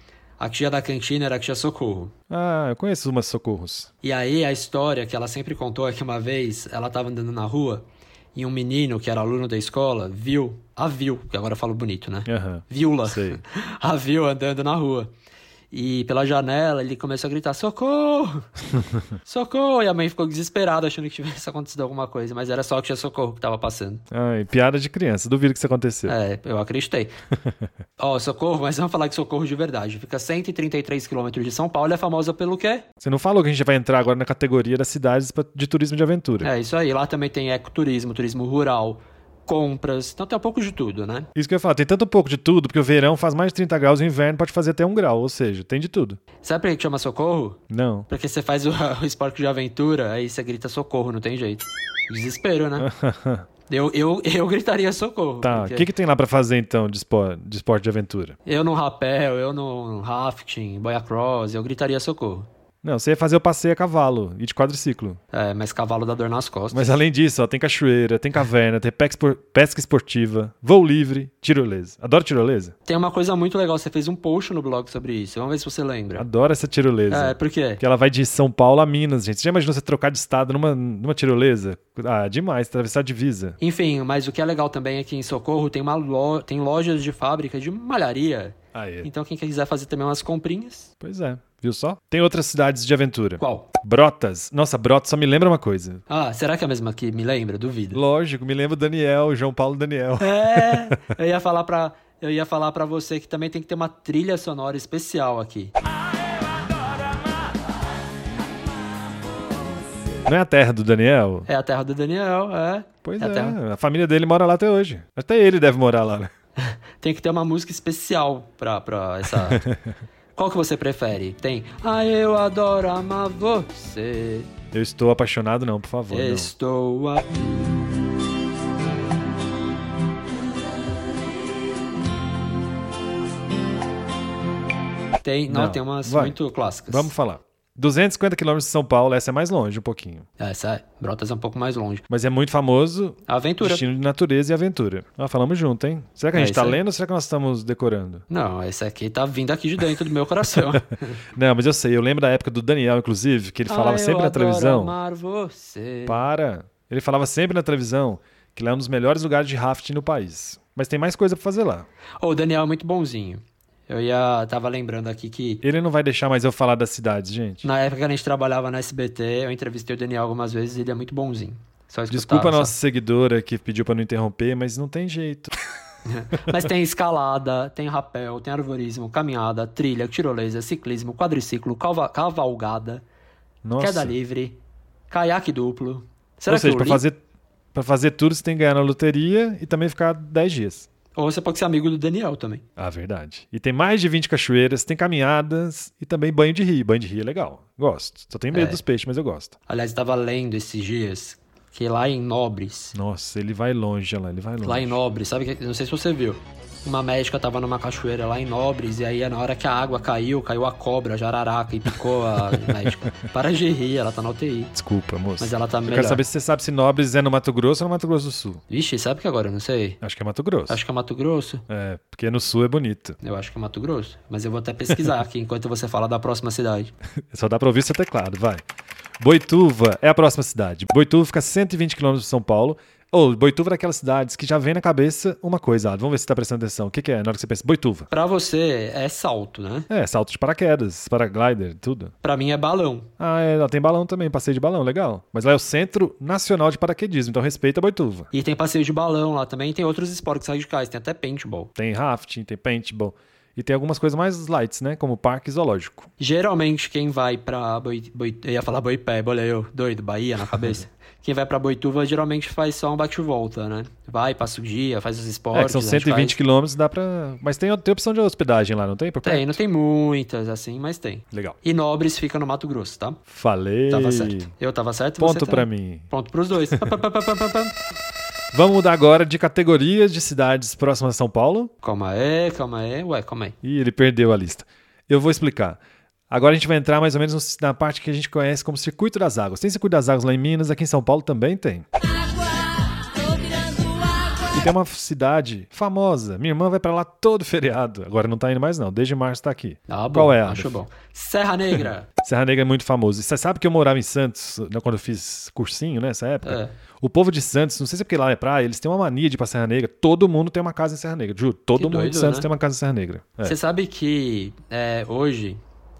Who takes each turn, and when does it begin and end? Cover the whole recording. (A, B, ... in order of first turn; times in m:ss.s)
0:00.4-0:02.1 A
0:02.3-0:03.9 B
0:04.0-0:07.8 A
0:08.3-0:15.1 A
0:12.2-0:13.4 B
0:15.7-0:18.5 A
0:19.2-0:24.0 A
0:24.1-0:26.2 B
0:26.0-0:27.1 A
0:28.0-0:32.8 A
0:33.0-0:36.5 B
0:36.4-0:41.3 A
0:41.3-0:46.2 B
0:46.4-0:52.9 A
0:47.7-0:48.1 B
0:52.8-0:53.5 B
0:53.7-0:55.9 A
0:55.4-0:58.4 B
0:58.4-1:02.5 A
1:02.8-1:05.2 B
1:05.3-1:06.9 A
1:06.7-1:12.7 B
1:12.8-1:16.2 A
1:16.2-1:23.6 B
1:17.1-1:17.8 A
1:23.6-1:30.9 A
1:28.7-1:29.1 B
1:31.0-1:36.0 B
1:33.4-1:33.7 A
1:36.1-1:38.0 A
1:37.9-1:41.0 B
1:40.2-1:45.7 A
1:50.2-1:51.5 B
1:51.5-1:53.6 A
1:53.0-1:56.3 B
1:56.6-1:59.6 A
1:59.3-1:59.9 B
2:00.4-2:04.5 A
2:04.7-2:06.5 B
2:06.1-2:07.4 A
2:15.2-2:17.1 A
2:15.5-2:20.2 B
2:20.4-2:22.0 A
2:22.1-2:28.2 B
2:23.3-2:23.8 A
2:26.3-2:26.8 A
2:28.3-2:31.2 A
2:31.3-2:35.0 B
2:33.7-2:36.2 A
2:36.0-2:41.9 B
2:42.2-2:45.6 A
2:45.6-2:47.7 B
2:47.6-2:52.7 A
2:52.1-2:55.5 B
2:56.0-3:03.0 A
3:03.6-3:04.1 B
3:03.8-3:07.0 A
3:06.5-3:07.2 B
3:07.7-3:10.9 B
3:11.2-3:12.6 A
3:12.8-3:19.5 B
3:18.5-3:18.8 A
3:19.7-3:22.9 A
3:22.9-3:25.0 B
3:24.6-3:34.7 A
3:32.5-3:33.1 B
3:34.7-3:38.6 B
3:35.4-3:36.2 A
3:38.7-3:40.0 A
3:40.0-3:40.8 B
3:40.7-3:41.6 A
3:41.7-3:43.2 B
3:43.2-3:46.9 A
3:47.3-3:48.6 B
3:49.2-3:58.1 B
3:58.1-3:59.9 A
3:59.9-4:02.1 B
4:02.2-4:03.1 A
4:03.2-4:08.3 B
4:08.3-4:11.7 A
4:11.8-4:16.1 B
4:16.2-4:26.4 A
4:25.5-4:29.6 B
4:29.2-4:33.2 A
4:31.3-4:31.6 B
4:33.3-4:34.5 B
4:33.9-4:37.7 A
4:35.2-4:36.1 B
4:38.5-4:41.7 B
4:41.8-4:43.5 A
4:43.6-4:51.8 B
4:54.5-5:00.8 B
4:59.9-5:02.1 A
5:02.2-5:13.6 B
5:06.4-5:06.7 A
5:11.8-5:12.5 A
5:13.4-5:15.6 A